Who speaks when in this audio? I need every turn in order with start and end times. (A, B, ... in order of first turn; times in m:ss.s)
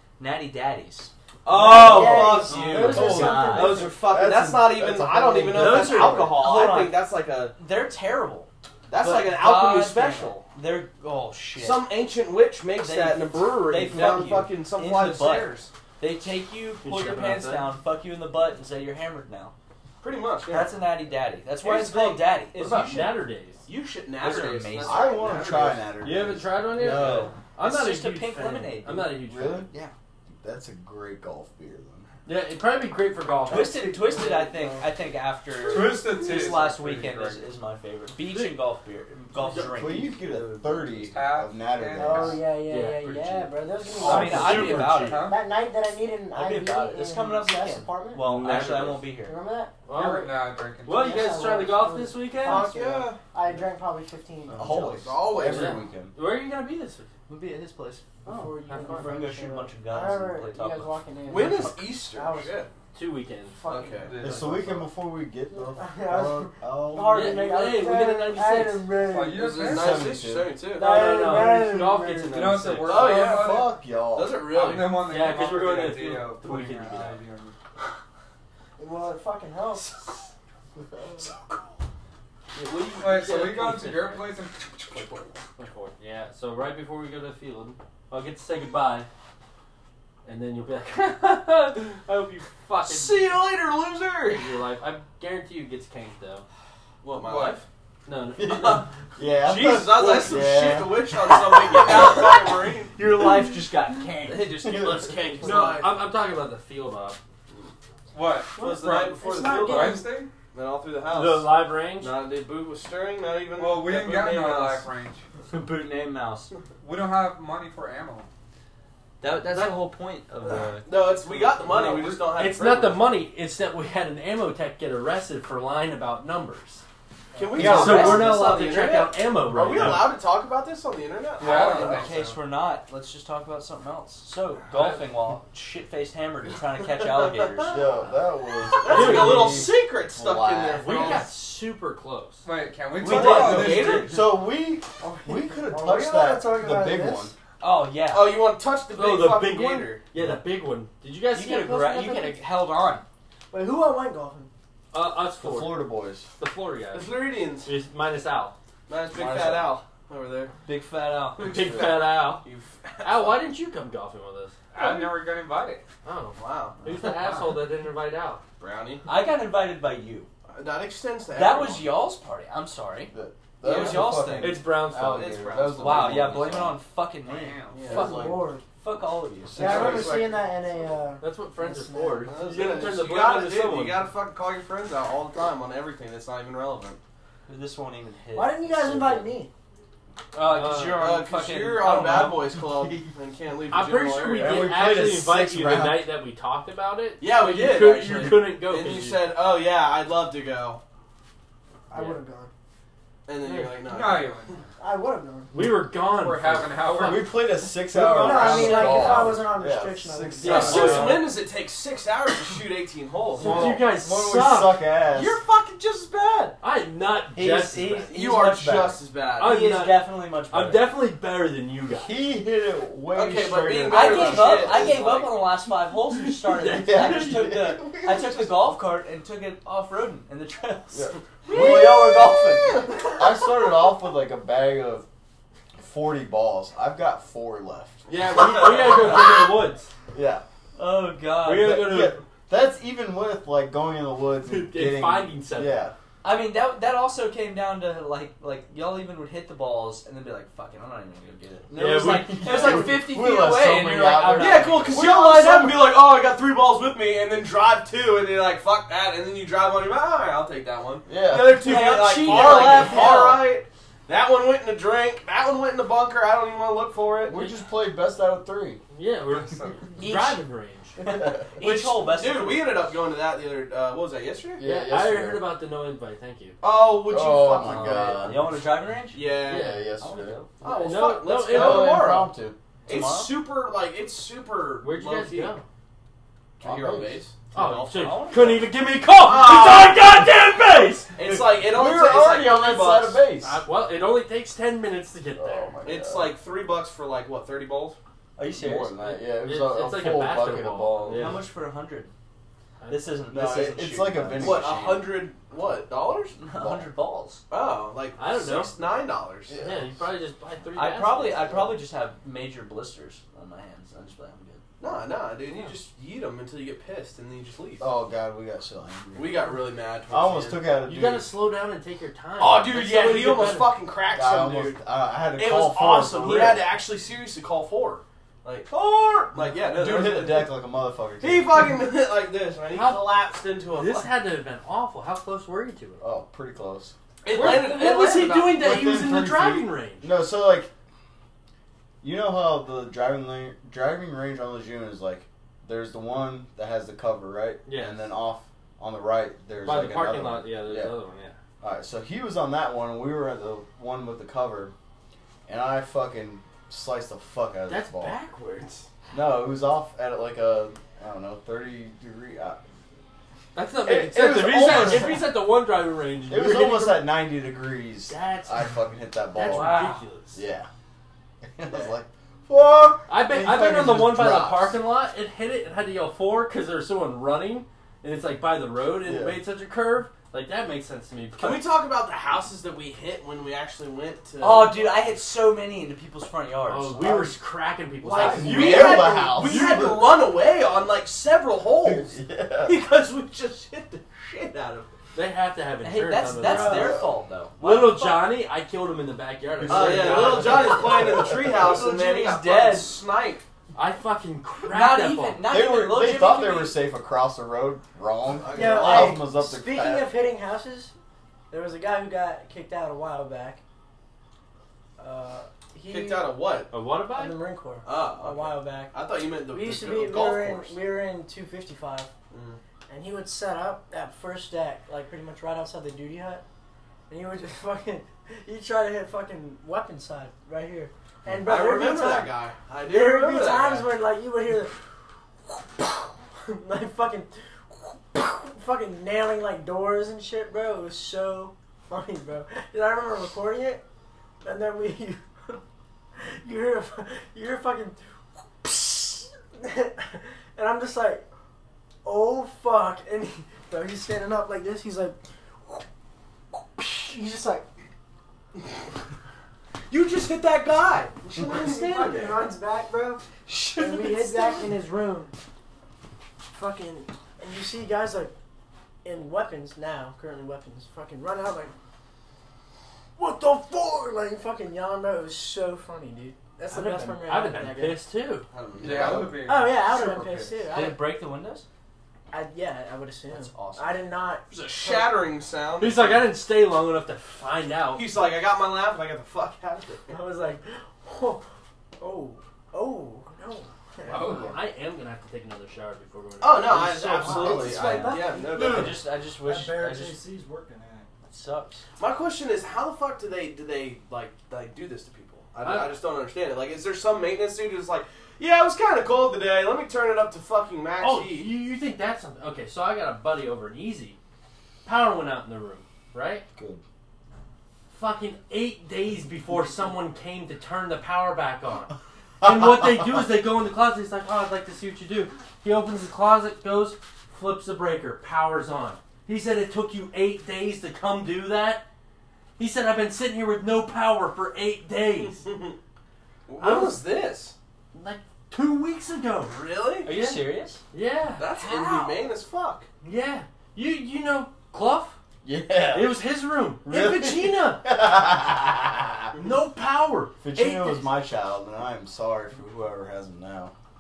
0:00.2-0:03.9 A
0:01.4-0:07.6 B
0:01.5-0:04.0 C
0:02.6-0:06.3 D
0:05.5-0:07.0 A
0:07.6-0:11.9 A
0:08.9-0:10.4 B
0:11.6-0:15.7 B
0:12.8-0:19.5 A
0:16.8-0:17.7 E
0:20.0-0:20.8 B
0:20.5-0:23.1 A
0:21.6-0:25.9 B
0:22.6-0:23.6 E
0:24.2-0:25.1 A
0:24.8-0:27.4 D
0:26.0-0:29.7 E
0:26.8-0:29.9 A
0:29.2-0:29.7 D
0:30.3-0:32.1 D
0:32.2-0:33.9 E
0:33.5-0:40.6 A
0:33.5-0:34.9 C
0:35.6-0:37.5 F
0:38.2-0:38.6 E
0:39.4-0:40.4 E
0:39.7-0:42.4 D
0:41.1-0:42.4 F
0:42.0-0:48.4 C
0:42.7-0:45.3 E
0:44.0-0:45.3 A
0:44.1-0:45.0 B
0:44.2-0:45.4 F
0:46.3-0:49.4 A
0:48.2-0:49.1 E
0:49.2-0:49.7 C
0:49.9-0:52.7 E
0:49.9-0:51.4 F
0:50.9-0:55.0 C
0:52.4-0:53.2 B
0:54.5-0:56.1 D
0:54.8-0:55.8 B
0:55.3-0:57.1 E
0:57.3-1:00.9 A
0:58.2-1:02.7 C
0:58.7-0:59.1 E
1:01.3-1:02.7 B
1:02.9-1:03.6 E
1:03.6-1:04.1 C
1:03.7-1:04.6 B
1:04.2-1:07.4 D
1:05.7-1:09.5 C
1:07.1-1:08.9 E
1:09.0-1:10.2 F
1:09.3-1:11.1 B
1:09.6-1:10.6 D
1:10.7-1:12.6 C
1:10.7-1:13.1 E
1:12.3-1:13.8 F
1:12.8-1:15.2 B
1:13.1-1:14.4 D
1:14.4-1:17.6 F
1:15.0-1:17.2 E
1:18.8-1:19.9 C
1:21.0-1:21.2 C
1:22.5-1:24.2 E
1:22.9-1:25.3 F
1:25.6-1:29.1 E
1:30.2-1:33.4 E
1:32.8-1:34.6 B
1:34.3-1:36.4 E
1:37.0-1:37.6 B
1:37.2-1:37.6 F
1:38.0-1:38.9 E
1:38.4-1:41.3 D
1:38.4-1:38.9 B
1:39.4-1:43.0 B
1:41.7-1:45.3 A
1:44.3-1:46.0 B
1:44.6-1:45.3 D
1:45.4-1:47.2 E
1:48.1-1:49.1 F
1:48.5-1:50.1 C
1:48.6-1:54.9 B
1:49.6-1:50.3 F
1:51.1-1:52.2 E
1:53.5-1:55.2 F
1:55.5-1:56.5 A
1:56.8-1:58.3 F
1:59.2-2:01.4 A
2:00.8-2:03.1 B
2:02.2-2:06.8 E
2:07.4-2:12.1 B
2:07.5-2:08.5 A
2:07.5-2:10.1 E
2:07.6-2:08.2 D
2:11.4-2:12.4 F
2:11.4-2:18.0 A
2:17.0-2:17.9 B
2:17.7-2:21.2 D
2:18.8-2:21.3 B
2:18.8-2:19.7 E
2:20.8-2:22.4 E
2:22.4-2:24.1 F
2:23.0-2:24.4 B
2:23.0-2:24.2 A
2:23.2-2:27.3 D
2:25.0-2:27.3 C
2:27.6-2:28.5 A
2:28.1-2:30.0 B
2:28.9-2:32.4 E
2:31.3-2:33.0 A
2:33.5-2:34.5 C
2:34.9-2:38.6 E
2:35.4-2:36.3 D
2:36.9-2:37.7 B
2:38.9-2:40.5 B
2:39.1-2:39.8 D
2:40.6-2:41.8 A
2:41.4-2:42.5 E
2:42.2-2:43.4 B
2:43.0-2:44.6 E
2:44.7-2:45.8 F
2:44.8-2:45.1 B
2:46.0-2:48.4 E
2:46.4-2:46.9 B
2:47.2-2:47.5 F
2:48.6-2:49.1 B
2:49.1-2:50.3 A
2:50.5-2:52.0 B
2:51.3-2:54.6 A
2:53.1-2:56.8 D
2:53.7-2:54.0 B
2:54.4-2:55.5 E
2:54.9-2:56.5 B
2:55.8-2:57.6 A
2:57.2-2:57.8 F
2:57.7-2:58.2 B
2:57.9-2:58.5 D
2:57.9-2:58.6 C
2:58.8-2:59.9 A
2:59.4-3:00.3 D
2:59.6-3:00.4 B
2:59.6-3:02.4 C
3:01.2-3:04.1 E
3:02.3-3:07.0 B
3:07.4-3:09.4 A
3:08.3-3:09.5 C
3:10.3-3:12.6 A
3:10.4-3:11.2 E
3:10.9-3:14.7 B
3:12.2-3:13.1 D
3:13.7-3:19.3 E
3:14.3-3:16.1 D
3:17.2-3:20.8 B
3:21.9-3:22.5 C
3:21.9-3:22.2 E
3:23.2-3:24.5 B
3:23.4-3:23.7 C
3:23.8-3:24.6 F
3:24.8-3:25.5 C
3:25.5-3:27.7 E
3:26.0-3:27.4 F
3:26.9-3:31.2 D
3:27.9-3:31.0 C
3:28.3-3:28.8 A
3:28.5-3:29.3 E
3:30.4-3:31.2 E
3:30.4-3:33.8 B
3:33.4-3:35.4 D
3:33.4-3:34.8 E
3:35.1-3:36.6 B
3:36.6-3:38.0 E
3:37.4-3:41.0 A
3:37.4-3:39.0 D
3:38.1-3:39.6 B
3:39.4-3:42.2 E
3:41.9-3:45.1 D
3:43.1-3:45.4 B
3:43.9-3:52.8 A
3:46.1-3:47.7 E
3:46.7-3:48.8 D
3:50.9-3:55.1 D
3:51.5-3:51.9 B
3:55.7-3:59.4 D
3:58.1-3:59.9 E
4:00.1-4:00.4 D
4:00.8-4:01.8 A
4:01.4-4:02.2 E
4:01.6-4:05.9 D
4:04.4-4:05.9 E
4:06.2-4:15.3 A
4:11.7-4:15.2 D
4:11.7-4:13.0 E
4:14.3-4:27.4 B
4:21.1-4:23.2 D
4:21.5-4:23.4 A
4:27.2-4:28.8 D
4:28.9-4:31.0 E
4:29.3-4:29.9 F
4:30.0-4:30.4 A
4:31.0-4:32.8 A
4:31.0-4:31.6 D
4:31.6-4:34.6 B
4:34.6-4:35.5 D
4:34.6-4:36.6 E
4:36.6-4:38.3 B
4:36.9-4:38.5 D
4:37.6-4:38.4 E
4:38.1-4:39.3 A
4:39.1-4:39.8 B
4:39.4-4:40.4 D
4:39.5-4:40.1 E
4:40.0-4:40.5 A
4:40.6-4:42.1 E
4:40.6-4:42.3 B
4:41.4-4:42.6 D
4:42.9-4:43.3 A
4:42.9-4:45.6 B
4:44.8-4:45.6 E
4:46.6-4:47.3 D
4:46.6-4:47.4 B
4:47.5-4:51.2 E
4:47.5-4:48.7 A
4:49.2-4:50.1 B
4:51.1-4:53.2 B
4:51.2-4:53.6 D
4:53.4-4:55.7 E
4:55.4-4:56.4 D
4:55.8-4:58.0 B
4:58.4-4:59.0 A
4:58.5-5:01.4 D
4:59.0-5:01.4 E
5:01.1-5:02.1 A
5:02.8-5:03.2 E
5:02.9-5:04.7 A
5:03.3-5:05.3 D
5:04.4-5:06.4 B
5:06.4-5:07.4 A
5:06.5-5:06.9 D
5:07.5-5:09.6 B
5:08.2-5:08.7 E
5:09.5-5:10.1 D
5:09.6-5:11.7 E
5:10.7-5:14.6 A
5:14.8-5:17.9 B
5:17.8-5:19.6 D
5:19.1-5:20.7 B
5:20.1-5:21.3 D
5:20.8-5:23.8 E
5:22.4-5:24.8 B
5:24.1-5:26.7 D
5:25.3-5:30.6 B
5:29.3-5:31.8 D
5:31.2-5:34.1 B
5:32.7-5:33.2 E
5:33.7-5:36.0 E
5:36.0-5:40.7 D
5:37.2-5:38.6 B
5:37.3-5:40.1 E
5:42.0-5:51.0 D
5:47.6-5:48.1 E
5:49.6-5:51.4 E
5:51.6-5:54.7 D
5:55.5-5:58.2 D
5:57.7-5:58.9 E
5:59.1-6:02.6 D
6:03.5-6:07.1 E
6:03.8-6:05.4 D
6:06.2-6:10.7 D
6:08.1-6:08.8 E
6:09.3-6:10.4 E
6:09.5-6:10.0 A
6:11.6-6:14.8 D
6:13.1-6:21.7 E
6:18.9-6:19.4 D
6:21.4-6:25.0 B
6:24.4-6:27.4 A
6:26.6-6:30.1 E
6:28.0-6:30.1 D
6:28.1-6:35.0 B
6:31.8-6:32.8 D
6:35.1-6:37.0 E
6:35.8-6:38.2 A
6:36.4-6:37.1 D
6:37.6-6:41.0 E
6:39.6-6:41.7 D
6:39.7-6:43.4 B
6:40.1-6:40.8 A
6:41.5-6:43.0 A
6:43.7-6:45.4 E
6:44.6-6:46.8 A
6:45.4-6:50.1 D
6:48.3-6:49.1 B
6:48.5-6:50.9 C
6:51.5-6:53.6 C
6:55.0-6:56.4 C
6:55.9-6:56.7 B
6:56.7-6:57.4 E
6:57.1-6:59.0 C
6:57.8-7:00.8 B
6:59.5-7:02.1 C
7:02.3-7:02.6 B
7:02.9-7:06.4 C
7:07.1-7:14.8 C
7:11.4-7:13.9 B
7:15.5-7:23.8 C
7:24.4-7:25.6 C
7:26.2-7:28.0 C
7:28.6-7:31.2 C
7:32.0-7:35.8 C
7:36.5-7:37.7 C
7:39.9-7:42.5 B
7:41.4-7:45.4 C
7:43.5-7:44.7 B
7:46.5-7:48.3 C
7:49.0-7:51.7 C
7:53.2-7:58.0 C
7:57.0-7:58.5 E
7:58.5-7:59.4 B
7:58.8-8:00.7 F
7:59.4-8:01.0 C
8:00.7-8:01.6 A
8:02.3-8:05.2 C
8:03.3-8:06.3 B
8:05.8-8:08.1 E
8:07.9-8:10.1 B
8:10.1-8:11.4 C
8:12.0-8:14.4 C
8:14.1-8:14.6 F
8:14.3-8:17.6 E
8:16.4-8:19.0 B
8:16.8-8:21.1 G
8:17.2-8:18.2 D
8:17.8-8:20.2 A
8:21.3-8:21.8 A
8:22.0-8:31.5 B
8:25.6-8:25.9 E
8:31.0-8:34.2 E
8:34.8-8:36.4 E
8:36.6-8:36.8 D
8:37.9-8:51.9 E
8:52.6-8:55.4 E
8:55.4-8:55.8 B
8:56.5-8:57.5 B
8:56.6-8:57.0 E
8:57.9-9:02.2 E
8:59.5-9:00.1 B
9:00.0-9:00.8 A
9:01.4-9:02.9 B
9:03.0-9:05.2 E
9:05.4-9:06.2 D
9:05.8-9:08.0 E
9:06.8-9:09.3 D
9:09.4-9:11.2 E
9:10.4-9:13.7 D